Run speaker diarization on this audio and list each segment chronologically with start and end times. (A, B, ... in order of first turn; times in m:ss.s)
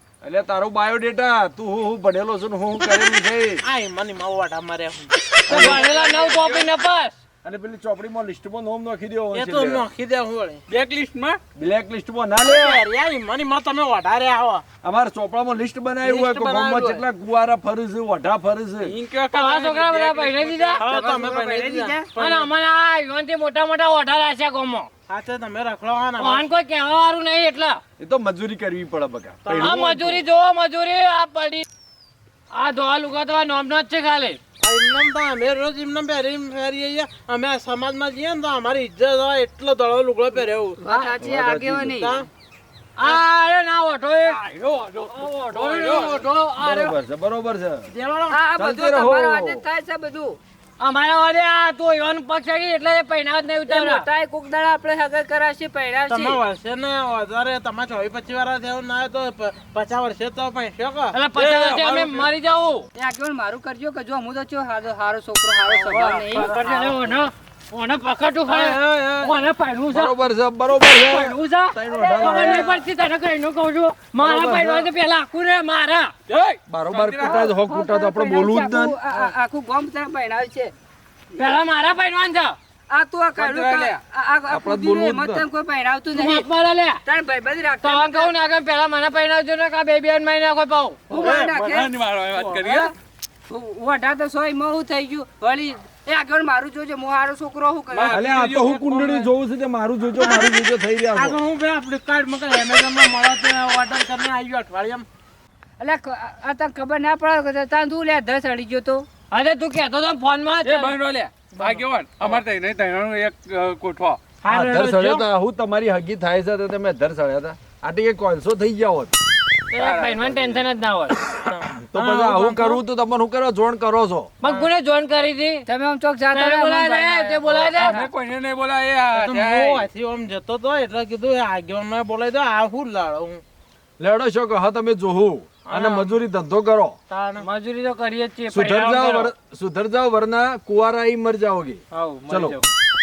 0:00.2-0:03.6 A
0:03.6-0:05.8 B
0:05.5-0:05.8 A
0:05.5-0:07.2 C
0:05.5-0:06.7 D
0:07.4-0:09.8 A
0:09.3-0:10.6 B
0:10.7-0:11.4 D
0:11.5-0:12.8 A
0:12.4-0:14.6 B
0:14.8-0:19.0 A
0:16.0-0:17.0 B
0:18.8-0:21.3 D
0:19.3-0:24.9 C
0:20.8-0:22.5 B
0:25.1-0:26.5 B
0:26.2-0:27.8 C
0:28.0-0:30.2 A
0:29.4-0:29.8 B
0:29.6-0:31.6 C
0:32.5-0:34.4 C
0:34.6-0:40.8 B
0:40.8-0:42.2 E
0:41.2-0:41.9 A
0:41.8-0:42.3 B
0:43.0-0:44.4 C
0:44.2-0:46.3 D
0:45.1-0:46.9 C
0:46.6-0:47.9 A
0:47.9-0:48.4 B
0:48.3-0:50.4 E
0:48.6-0:49.6 A
0:50.8-0:54.0 C
0:53.7-0:56.4 E
0:56.1-1:01.2 B
1:01.1-1:02.9 C
1:01.4-1:02.3 D
1:02.9-1:06.9 E
1:05.7-1:10.2 C
1:06.4-1:06.7 B
1:08.5-1:09.4 B
1:09.9-1:12.7 A
1:10.8-1:16.1 C
1:11.9-1:12.7 E
1:14.2-1:14.9 A
1:16.3-1:17.4 D
1:16.7-1:19.0 A
1:17.2-1:20.7 E
1:21.3-1:22.6 C
1:22.9-1:26.5 E
1:23.4-1:24.0 D
1:24.5-1:25.4 A
1:26.1-1:27.0 C
1:27.0-1:28.3 E
1:27.8-1:31.2 C
1:31.1-1:31.9 E
1:31.1-1:31.6 B
1:31.4-1:32.9 D
1:32.3-1:32.9 B
1:33.5-1:38.2 E
1:37.9-1:39.3 D
1:38.1-1:41.4 A
1:40.2-1:40.5 B
1:41.2-1:45.0 B
1:45.8-1:49.1 E
1:49.3-1:50.9 C
1:50.6-1:54.2 D
1:51.5-1:52.4 B
1:54.4-1:55.2 B
1:54.5-1:59.1 A
1:59.7-2:01.2 C
1:59.8-2:00.6 D
2:01.3-2:02.8 B
2:01.9-2:04.3 A
2:04.4-2:05.6 C
2:05.6-2:08.0 E
2:06.3-2:08.1 C
2:07.7-2:09.8 D
2:09.1-2:13.4 B
2:14.0-2:17.0 A
2:15.7-2:16.2 B
2:17.1-2:17.5 B
2:17.4-2:19.3 C
2:18.5-2:22.6 A
2:21.9-2:22.7 C